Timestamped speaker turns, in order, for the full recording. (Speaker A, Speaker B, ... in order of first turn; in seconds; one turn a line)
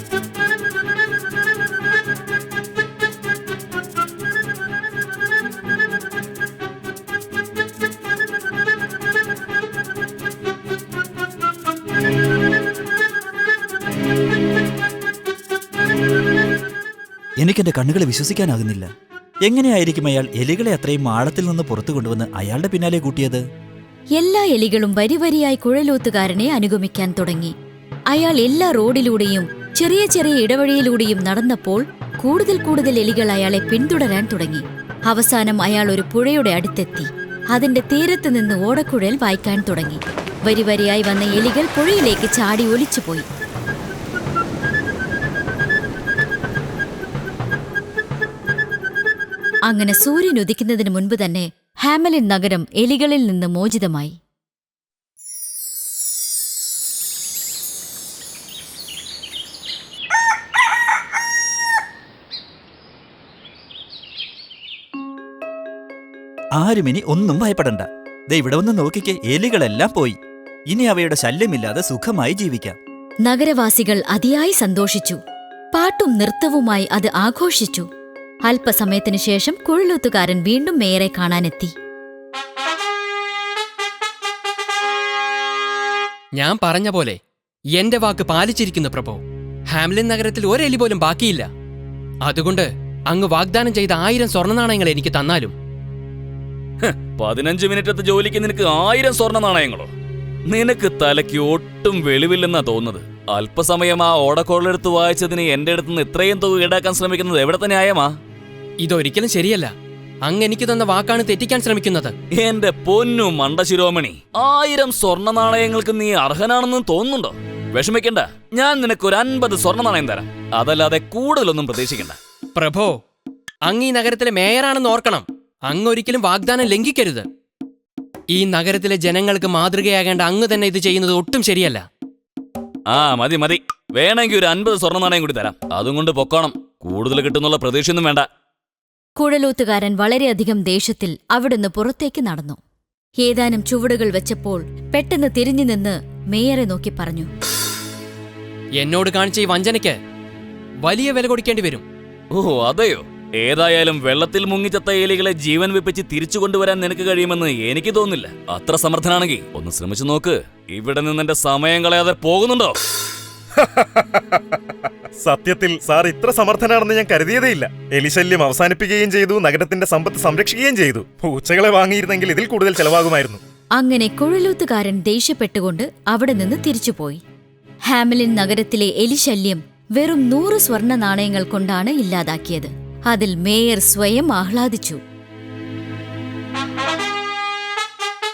Speaker A: 17.4-18.9
Speaker A: 19.4-23.4
Speaker B: 24.2-27.6
Speaker B: 28.1-43.3
Speaker B: 49.7-54.2
Speaker A: 66.6-70.2
Speaker A: 70.7-72.8
Speaker B: 73.2-75.2
Speaker B: 75.7-77.9
Speaker B: 78.5-81.7
Speaker C: 86.4-87.2
Speaker C: 87.7-89.2
Speaker C: 89.7-91.5
Speaker C: 92.2-95.5
Speaker D: 96.9-99.9
Speaker D: 100.5-108.1
Speaker C: 108.8-109.7
Speaker C: 110.2-112.1
Speaker D: 112.3-122.2
Speaker C: 122.6-123.0
Speaker C: 123.7-127.3
Speaker C: 128.3-131.9
Speaker D: 132.9-138.3
Speaker B: 139.2-142.6
Speaker B: 143.2-147.3
Speaker C: 148.8-150.0
Speaker C: 150.8-151.8
Speaker D: 152.3-162.8
Speaker E: 163.6-164.4
Speaker E: 165.2-173.4
Speaker B: 173.8-177.2
Speaker B: 177.9-185.0